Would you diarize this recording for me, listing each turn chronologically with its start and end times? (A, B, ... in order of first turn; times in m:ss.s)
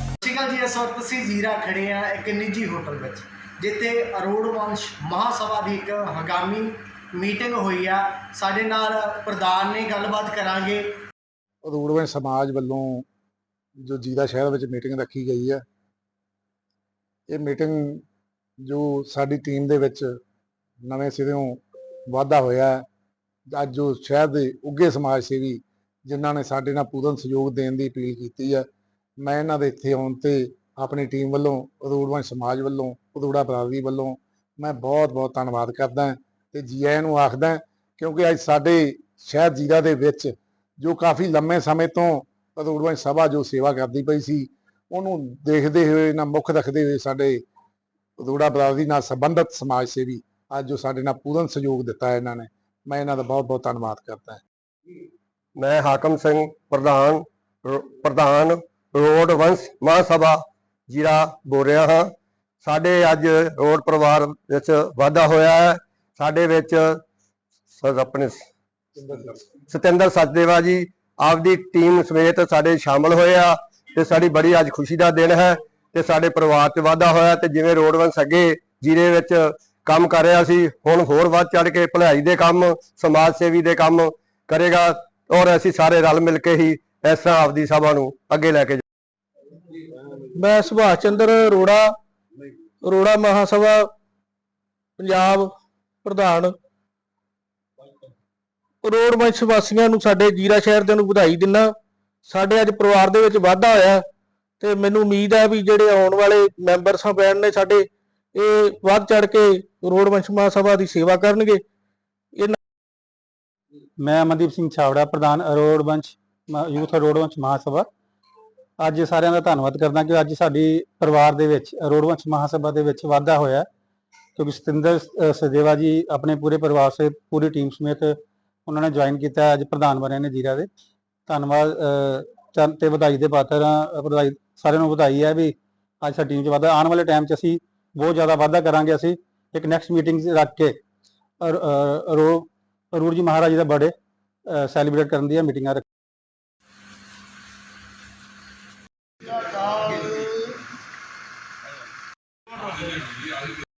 0:00.2-0:10.9 A
0:11.6-0:13.0 B
0:13.8-0:15.6 B
0:17.3-0:18.0 B
0:18.6-0:20.1 B
0:20.8-0:22.8 B
0:23.5-0:28.6 B
0:29.2-0:47.4 B
0:48.2-0:54.4 B
0:55.6-1:02.1 C
1:02.6-1:07.0 C
1:07.7-1:08.4 C
1:08.9-1:09.4 B
1:09.7-1:28.8 C
1:30.3-1:31.9 D
1:32.8-1:33.9 D
1:35.0-1:35.5 D
1:36.0-1:36.5 D
1:38.8-1:41.7 D
1:42.2-1:44.0 D
1:44.6-1:51.6 D
1:54.0-1:57.9 E
1:58.8-2:03.7 E
2:04.4-2:10.7 E
2:11.2-2:20.8 E
2:21.4-2:23.9 E
2:24.4-2:25.8 E
2:29.4-2:30.3 A